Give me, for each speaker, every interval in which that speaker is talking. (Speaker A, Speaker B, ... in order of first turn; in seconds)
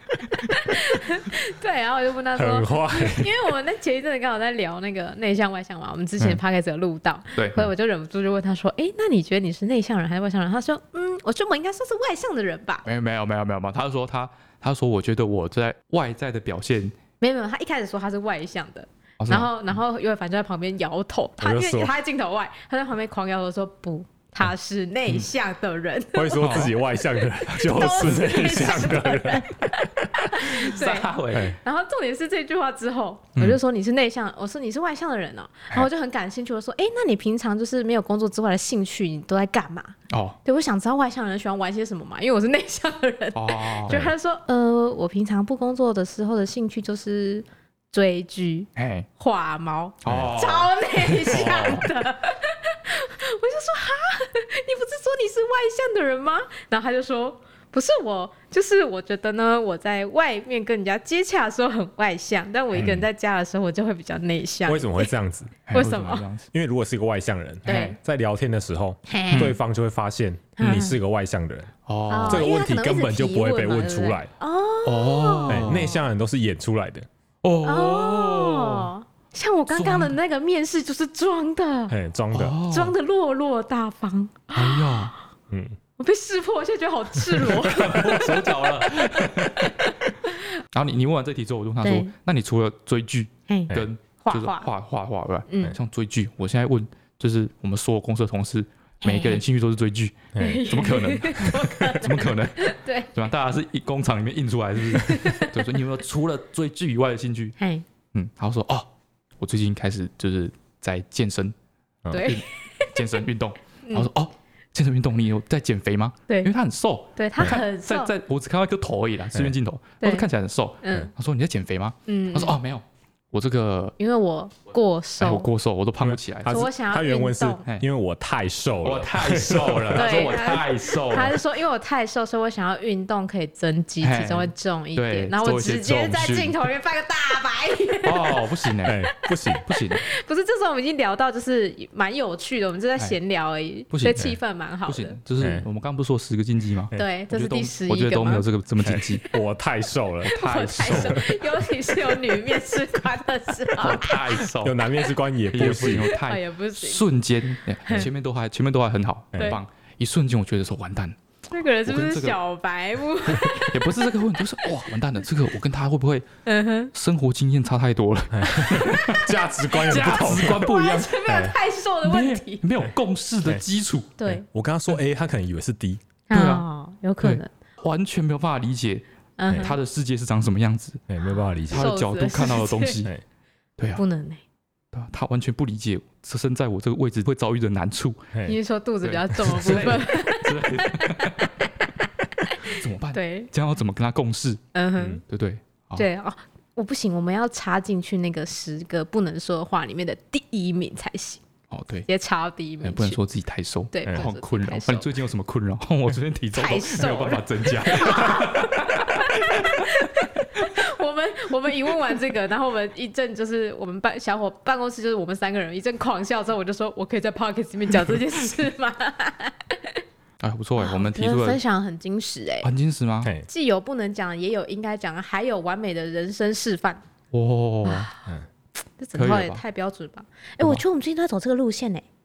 Speaker A: 0.4-12.8, 17.2-26.9, 27.4-65.1, 65.7-66.3, 67.7-68.0, 69.1-69.5, 70.6-71.0, 72.1-76.0, 77.6-82.0, 82.7-85.2, 86.0-90.5, 91.8-92.1, 93.5-94.7, 95.5-95.8, 99.0-99.4, 100.4-103.1, 104.9-105.6, 107.6-107.8, 112.1-113.2, 113.8-114.1, 116.3-116.5, 117.1-118.1, 120.0-120.3, 120.8-121.1, 122.1-122.6, 124.0-125.5, 126.5-127.6, 129.9-138.4, 139.5-145.2, 146.9-148.4, 150.3-154.4, 155.8-157.1, 157.8-158.1, 161.5-164.8, 166.4-166.9, 168.5-172.6, 174.2-174.4, 176.3-177.5, 179.4-179.8, 181.7-183.1, 183.9-184.4, 188.4-193.5, 194.7-195.2, 195.9-201.4, 202.1-203.2, 203.9-205.1, 206.5-220.0, 220.8-222.7, 223.5-227.0, 227.8-228.2, 229.0-232.1
Speaker B: 2.4-3.3, 21.4-21.9, 26.1-30.3, 31.3-31.6, 62.7-63.0, 64.7-65.7, 66.5-71.7, 72.3-74.3, 75.5-77.1, 81.9-82.6, 85.5-85.8, 88.0-88.3, 100.3-100.7, 112.0-112.3, 126.0-130.1, 138.8-139.7, 145.4-145.7, 148.8-151.3, 154.5-156.1, 159.3-159.6, 168.3-170.7, 171.3-171.6, 174.2-176.0, 181.1-181.9
Speaker C: 7.3-7.7, 12.8-17.0, 19.2-19.5, 26.4-26.7, 30.4-31.6, 40.1-40.4, 43.3-44.0, 48.8-49.1, 50.0-50.7, 51.2-51.9, 62.7-63.0, 65.7-66.5, 67.7-68.0, 69.3-69.6, 71.9-72.5, 74.8-76.0, 77.4-78.9, 79.7-80.1, 82.3-82.9, 84.5-85.1, 87.4-89.8, 90.7-107.5, 108.1-111.5, 112.2-124.0, 125.2-126.7, 128.8-131.4, 134.0-136.6, 138.0-139.0, 139.6-140.0, 143.9-144.2, 144.8-149.2, 150.2-151.4, 153.7-154.9, 155.5-161.2, 161.8-162.4, 163.6-166.2, 166.9-171.2, 172.0-174.1, 176.3-176.7, 177.2-181.0, 181.7-183.1, 184.9-188.3, 189.0-191.7, 192.6-194.6, 195.2-196.1, 201.7-202.1, 202.8-210.7, 220.4-221.6, 222.6-223.3, 227.3-228.1, 229.1-229.6